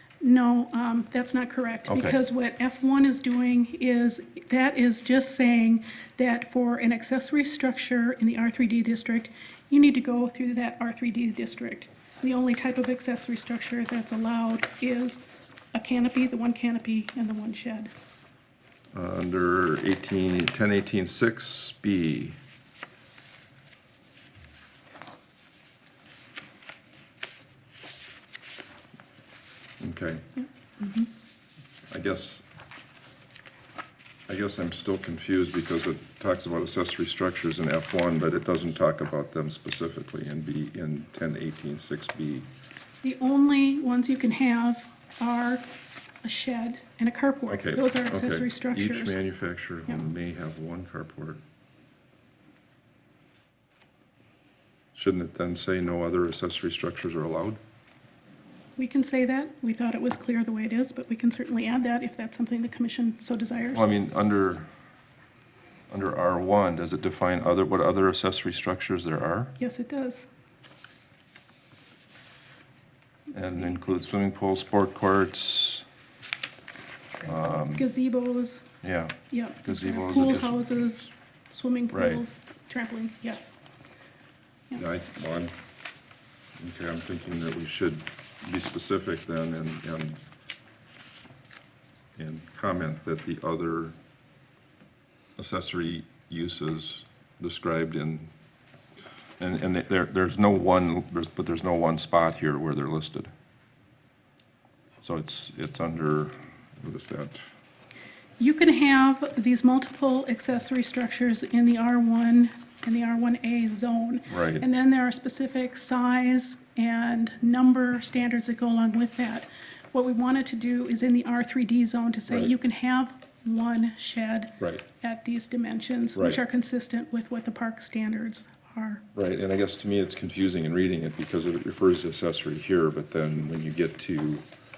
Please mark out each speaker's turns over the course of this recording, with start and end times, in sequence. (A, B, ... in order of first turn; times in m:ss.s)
0:00.2-0:17.9 A
0:01.9-0:02.2 B
0:18.9-0:22.4 B
0:29.8-0:30.2 B
0:30.4-0:31.1 A
0:31.9-0:32.4 B
0:34.3-0:42.5 B
0:43.0-0:45.6 A
0:46.2-0:49.2 A
0:47.5-0:51.4 B
0:54.9-0:57.6 B
0:58.8-1:03.9 A
1:03.7-1:04.7 B
1:05.9-1:09.5 B
1:09.6-1:10.3 A
1:13.3-1:14.1 A
1:13.3-1:15.8 B
1:17.2-1:17.8 B
1:17.7-1:18.6 A
1:18.8-1:20.7 B
1:19.3-1:23.6 A
1:21.9-1:22.2 B
1:24.8-1:25.5 B
1:26.6-1:30.2 B
1:32.2-1:34.0 B
1:35.4-1:38.3 B
1:39.4-1:43.3 B
1:45.0-1:47.4 B
1:48.4-2:09.0 A
1:54.3-1:54.6 B
2:06.2-2:06.4 B
2:09.1-2:14.4 B